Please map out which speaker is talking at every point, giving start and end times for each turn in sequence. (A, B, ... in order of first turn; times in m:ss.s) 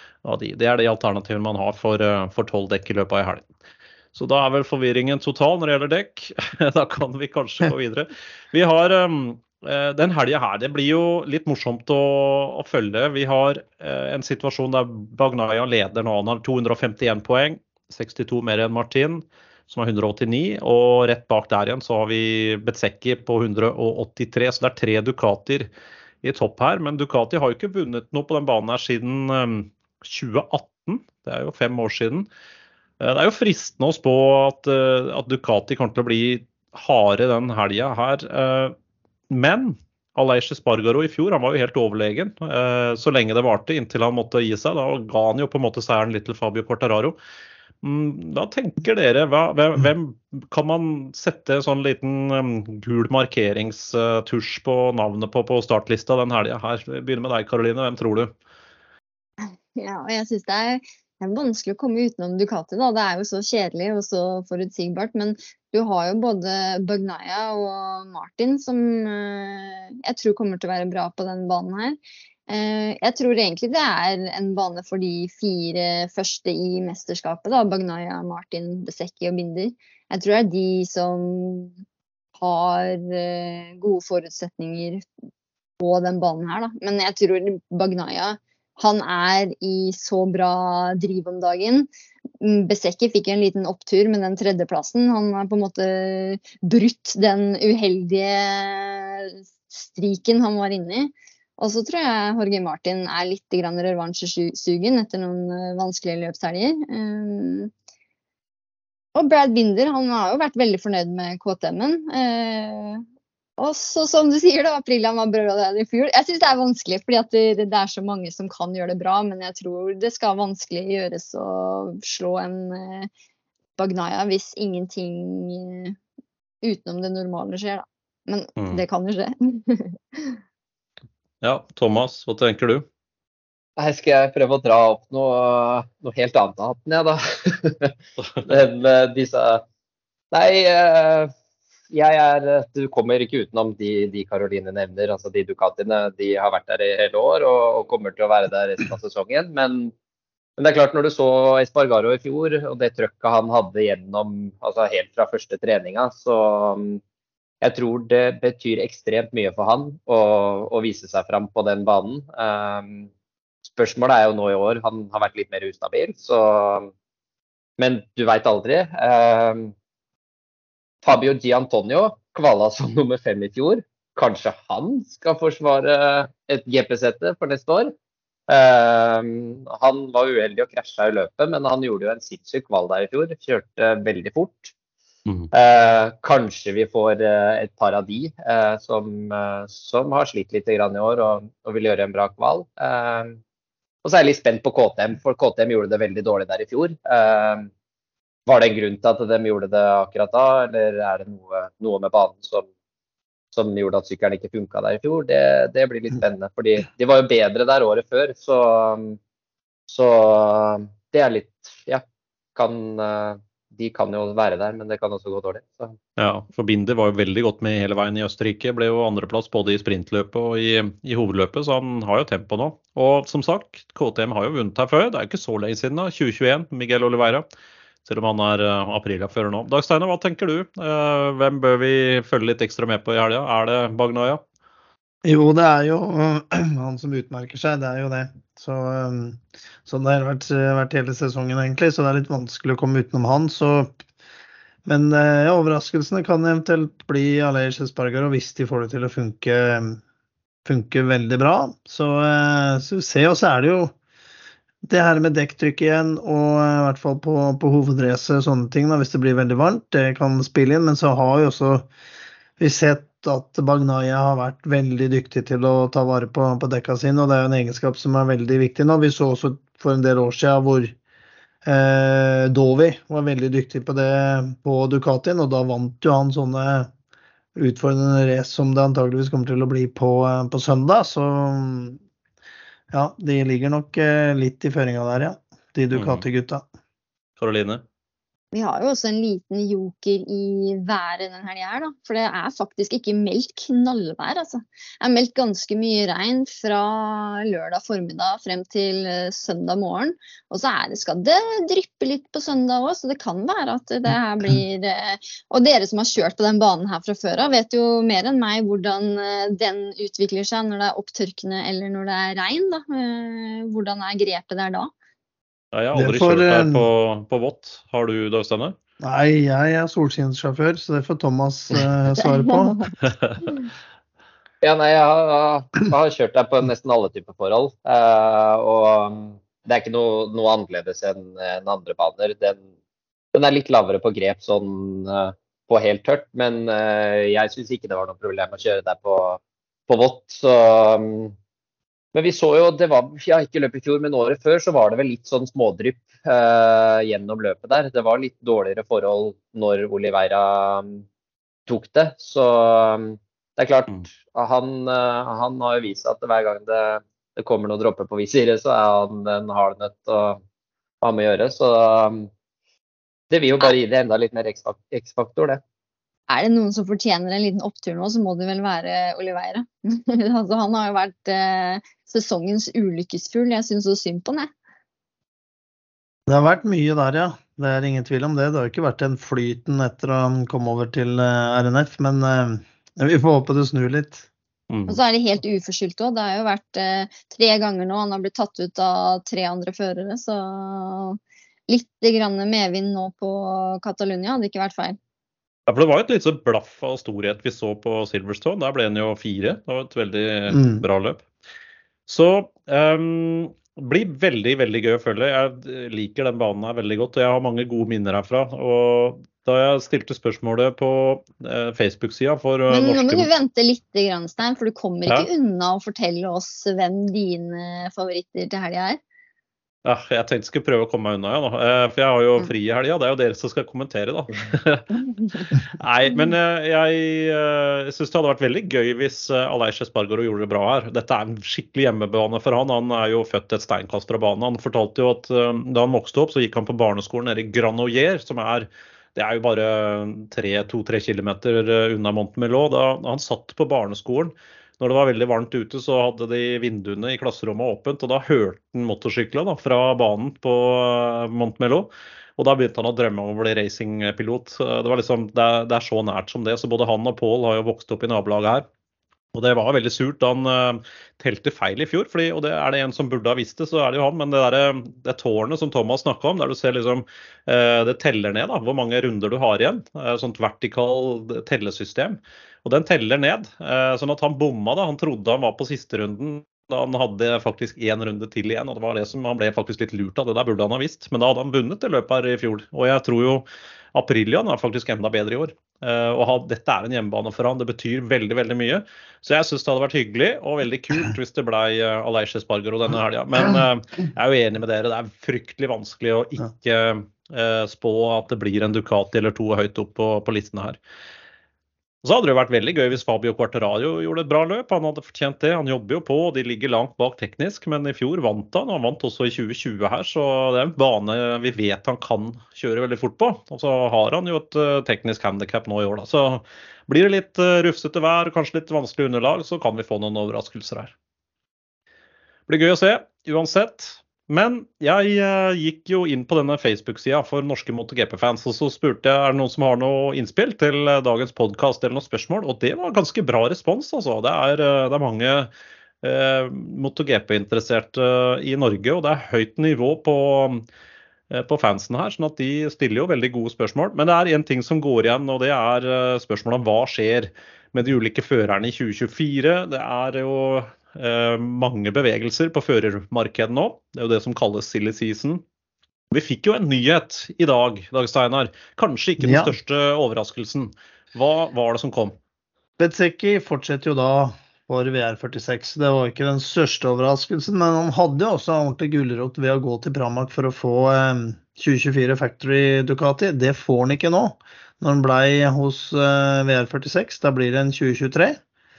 0:00.2-0:03.5 A
0:04.1-0:25.7 A
0:26.2-0:32.3 A
0:33.0-0:38.7 A
0:39.3-0:47.2 A
0:47.8-0:58.3 A
0:59.4-1:21.7 B
1:22.4-1:25.0 B
1:25.8-1:31.9 B
1:32.4-1:47.7 B
1:49.1-1:53.0 B
1:53.6-2:03.1 B
2:03.8-2:06.0 B
2:06.6-2:10.4 B
2:08.6-2:08.8 A
2:11.4-2:12.8 A
2:13.8-2:17.9 C
2:18.4-2:19.6 C
2:20.3-2:21.3 C
2:21.9-2:29.9 C
2:30.6-2:37.0 C
2:37.6-2:43.1 C
2:43.6-2:46.9 C
2:47.8-2:49.7 C
2:51.0-2:57.9 C
2:58.5-3:04.7 C
3:05.5-3:13.4 C
3:14.0-3:17.7 C
3:18.5-3:22.6 C
3:23.5-3:29.2 C
3:29.9-3:32.0 C
3:32.5-3:36.0 C
3:36.2-3:47.4 A
3:48.0-3:54.4 A
3:55.2-4:03.9 D
4:04.8-4:10.0 D
4:10.6-4:13.9 D
4:14.8-4:21.9 D
4:22.6-4:30.9 D
4:31.6-4:36.9 D
4:37.6-4:42.0 D
4:42.9-4:46.6 D
4:45.9-4:46.2 A
4:47.4-4:47.8 A
4:48.5-5:14.9 B
5:15.7-5:18.7 A
5:15.9-5:16.8 D
5:19.0-5:22.8 D
5:23.0-5:23.5 A
5:24.6-5:32.6 C
5:33.3-5:41.3 C
5:42.1-5:51.0 C
5:51.7-6:00.4 C
6:01.0-6:02.3 C
6:03.3-6:05.6 C
6:06.3-6:14.5 B
6:16.3-6:24.3 D
6:24.7-6:25.0 A
6:24.9-6:35.0 B
6:35.7-6:41.2 A
6:40.5-6:40.8 D
6:42.1-6:53.3 A
6:52.7-6:59.0 B
6:59.8-7:05.1 A
7:05.7-7:38.6 A
7:39.3-8:20.8 A
8:22.0-8:40.9 A
8:42.5-8:55.5 A
8:56.0-9:00.6 A
9:01.3-9:15.4 A
9:16.1-9:22.2 A
9:19.2-9:19.5 D
9:22.8-9:38.4 D